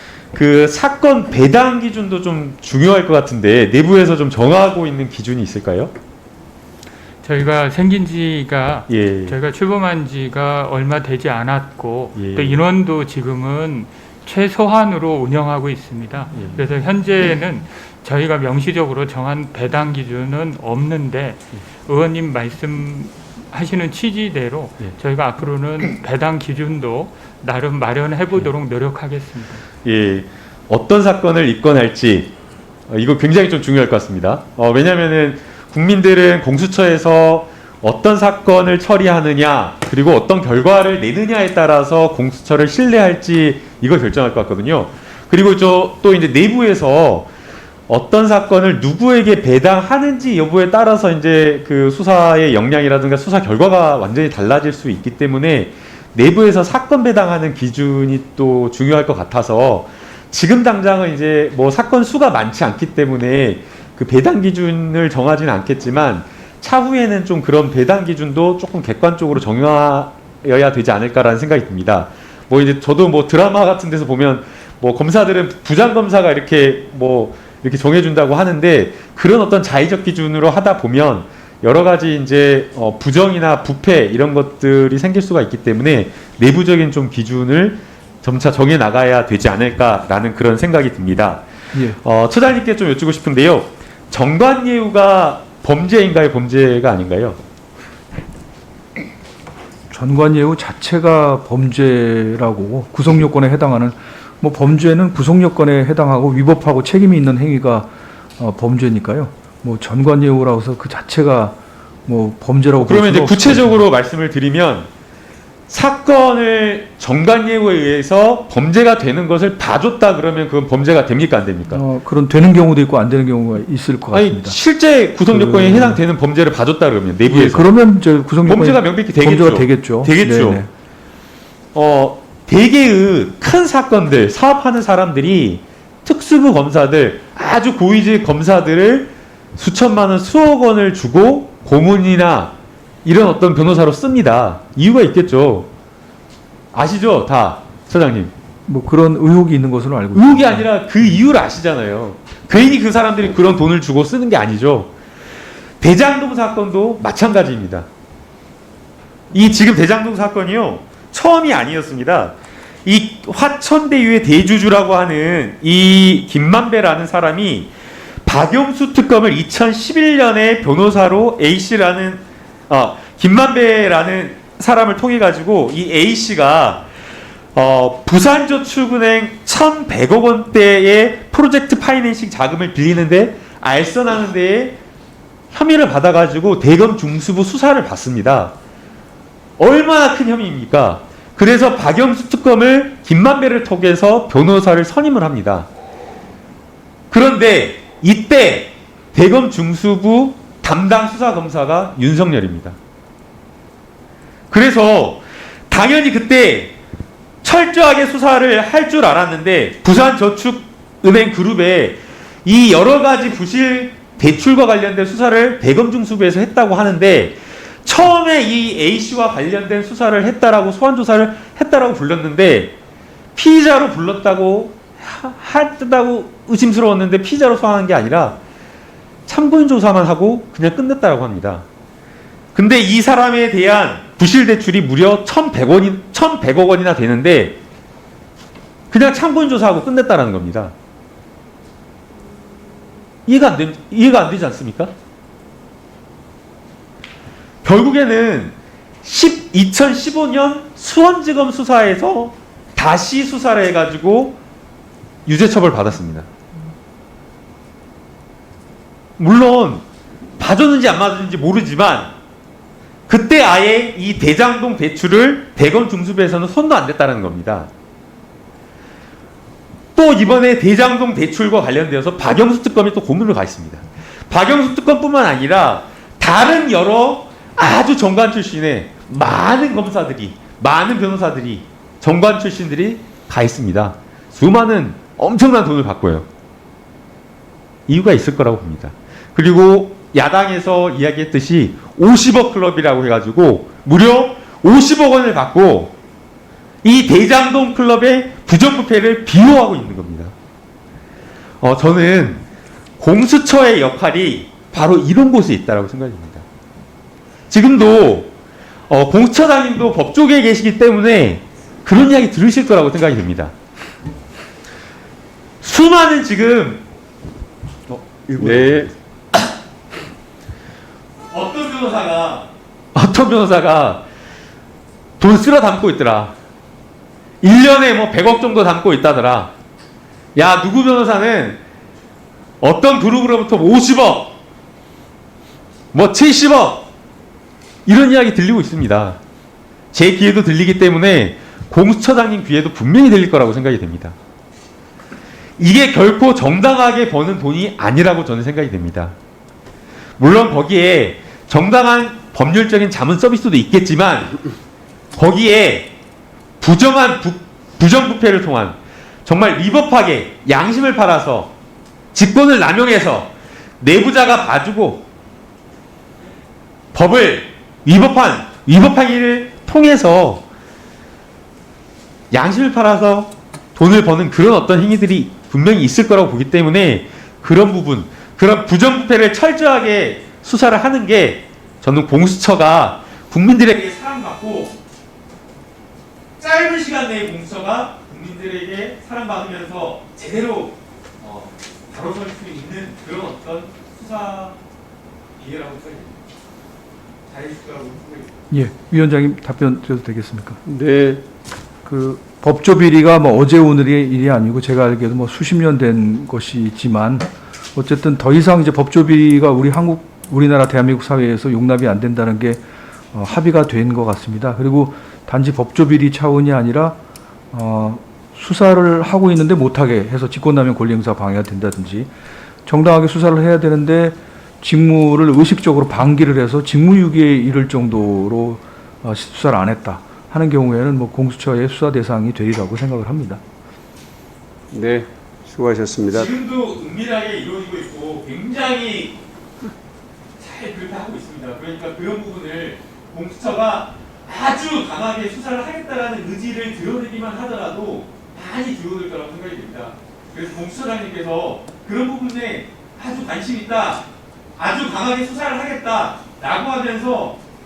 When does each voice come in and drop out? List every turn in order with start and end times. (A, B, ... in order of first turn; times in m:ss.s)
0:00.3-0:05.9 A
0:07.2-0:29.6 B
0:08.9-0:09.4 A
0:12.2-0:12.6 A
0:29.8-0:32.3 A
0:32.9-0:47.3 A
0:47.9-1:31.4 A
1:31.9-1:37.4 A
1:39.9-1:53.8 C
1:52.8-1:54.9 A
1:55.7-2:01.8 A
2:01.7-2:04.6 C
2:04.1-2:07.7 A
2:05.3-2:06.0 C
2:07.3-2:10.7 C
2:08.4-2:10.6 A
2:11.7-2:22.5 A
2:23.0-2:25.7 A
2:26.7-2:28.3 A
2:28.7-2:30.7 C
2:30.1-2:34.9 A
2:35.8-2:37.9 A
2:39.3-2:42.3 A
2:42.8-2:47.7 A
2:48.3-2:56.8 A
2:57.6-3:04.8 A
3:05.5-3:08.5 A
3:09.6-3:15.7 A
3:17.1-3:22.8 A
3:24.5-3:26.8 A
3:27.4-3:42.8 A
3:43.4-3:48.4 A
3:49.3-3:51.6 A
3:52.6-3:57.6 A
3:58.9-4:00.7 A
4:03.3-4:04.9 A
4:07.6-4:14.4 A
4:15.2-4:16.3 A
4:19.2-4:19.8 A
4:20.4-4:22.1 A
4:23.1-4:27.7 A
4:29.9-4:46.3 A
4:47.9-4:55.9 A
4:56.8-5:00.3 A
5:01.6-5:02.4 A
5:03.0-5:06.4 A
5:07.5-5:08.3 A
5:08.9-5:13.5 A
5:15.6-5:16.8 A
5:17.9-5:18.6 A
5:18.3-5:18.9 D
5:21.3-5:24.0 A
5:25.2-5:26.3 A
5:27.4-5:29.5 A
5:30.4-5:31.6 A
5:32.6-5:34.3 A
5:35.9-5:36.8 A
5:37.9-5:39.2 A
5:39.9-5:44.2 A
5:45.6-5:49.2 A
5:50.2-5:54.4 A
5:55.1-5:55.9 A
5:56.6-6:01.5 A
6:02.1-6:03.3 A
6:03.8-6:05.0 A
6:06.9-6:10.4 A
6:12.3-6:24.8 A
6:26.4-6:34.6 A
6:35.4-6:36.2 A
6:37.3-6:38.4 A
6:38.5-6:40.6 C
6:40.6-6:41.2 D
6:41.8-6:52.6 C
6:53.1-6:57.0 C
6:57.5-7:02.1 C
7:02.7-7:13.4 C
7:14.7-7:16.3 D
7:16.1-7:19.2 A
7:20.4-7:34.0 A
7:34.6-7:37.4 A